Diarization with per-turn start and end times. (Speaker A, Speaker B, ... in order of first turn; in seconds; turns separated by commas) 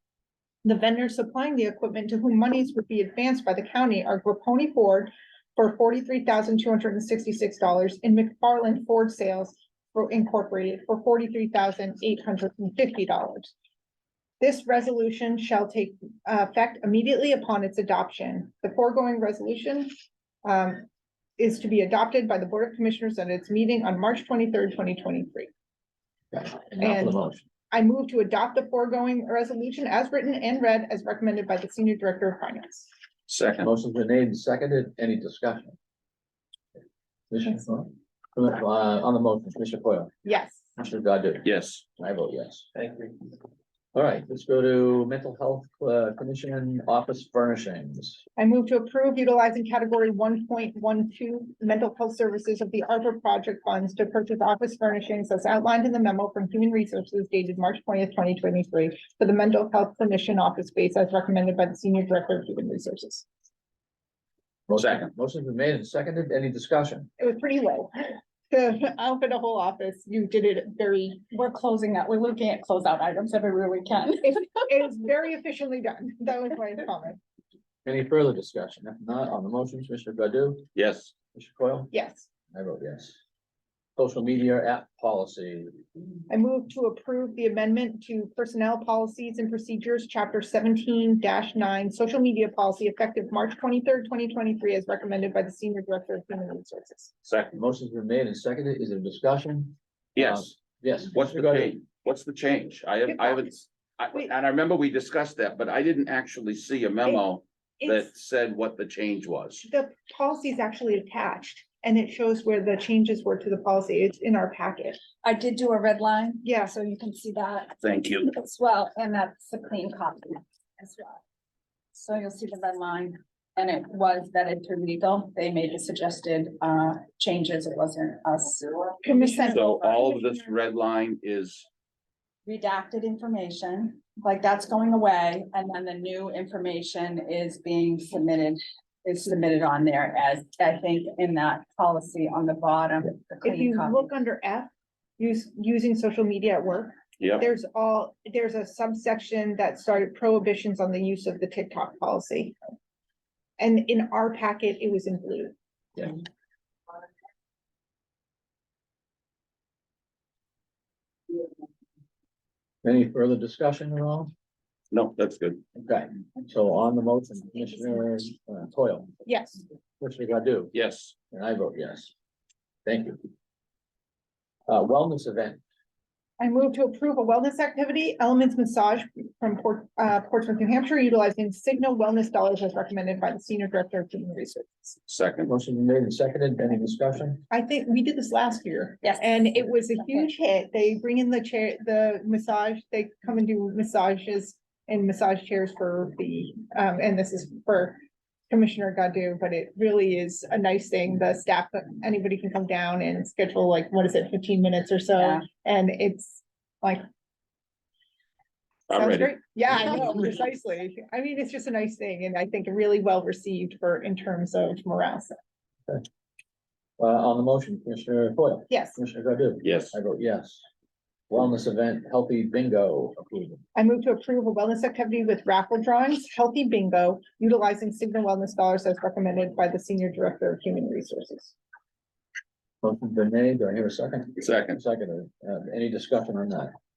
Speaker A: 0.6-13.5, Speaker A: 14.4-19.9, Speaker A: 20.4-25.5, Speaker B: 26.3-27.4, Speaker A: 26.8-27.2, Speaker A: 27.7-32.9, Speaker C: 33.3-33.7, Speaker B: 33.6-35.7, Speaker B: 37.3-40.1, Speaker A: 40.2-40.6, Speaker B: 40.8-43.1, Speaker C: 41.4-41.8, Speaker B: 43.9-48.2, Speaker A: 48.4-63.2, Speaker B: 64.7-67.1, Speaker C: 64.8-65.1, Speaker A: 67.2-71.3, Speaker D: 71.3-74.6, Speaker A: 74.2-77.2, Speaker B: 77.8-80.7, Speaker C: 80.8-81.1, Speaker B: 81.3-81.9, Speaker A: 81.9-82.3, Speaker B: 82.5-83.2, Speaker B: 84.0-85.8, Speaker A: 86.3-97.1, Speaker C: 97.2-97.5, Speaker B: 97.5-101.7, Speaker C: 100.1-100.5, Speaker C: 101.1-109.7, Speaker A: 103.1-103.5, Speaker A: 107.8-108.1, Speaker A: 109.7-115.0, Speaker D: 115.2-121.2, Speaker A: 116.4-116.7, Speaker C: 117.8-118.3, Speaker D: 121.9-129.6, Speaker A: 129.0-130.5, Speaker C: 129.5-131.7, Speaker D: 132.4-144.1, Speaker A: 143.4-152.6, Speaker C: 147.2-147.5, Speaker A: 153.6-155.5, Speaker B: 162.8-164.3, Speaker C: 164.9-165.6, Speaker B: 165.8-169.1, Speaker A: 169.2-169.6, Speaker B: 170.0-170.7, Speaker C: 170.7-171.1, Speaker B: 171.3-172.1, Speaker B: 172.8-173.2, Speaker B: 174.7-175.6, Speaker A: 176.4-185.0, Speaker C: 185.1-185.5, Speaker B: 185.5-187.4, Speaker A: 187.5-207.0, Speaker D: 189.0-189.5, Speaker D: 205.2-205.4, Speaker C: 208.9-209.3, Speaker A: 208.9-215.4, Speaker B: 217.0-220.6, Speaker A: 218.7-219.0, Speaker C: 219.6-219.9, Speaker B: 221.3-223.6, Speaker A: 223.8-231.6, Speaker B: 232.8-236.7, Speaker C: 234.4-234.8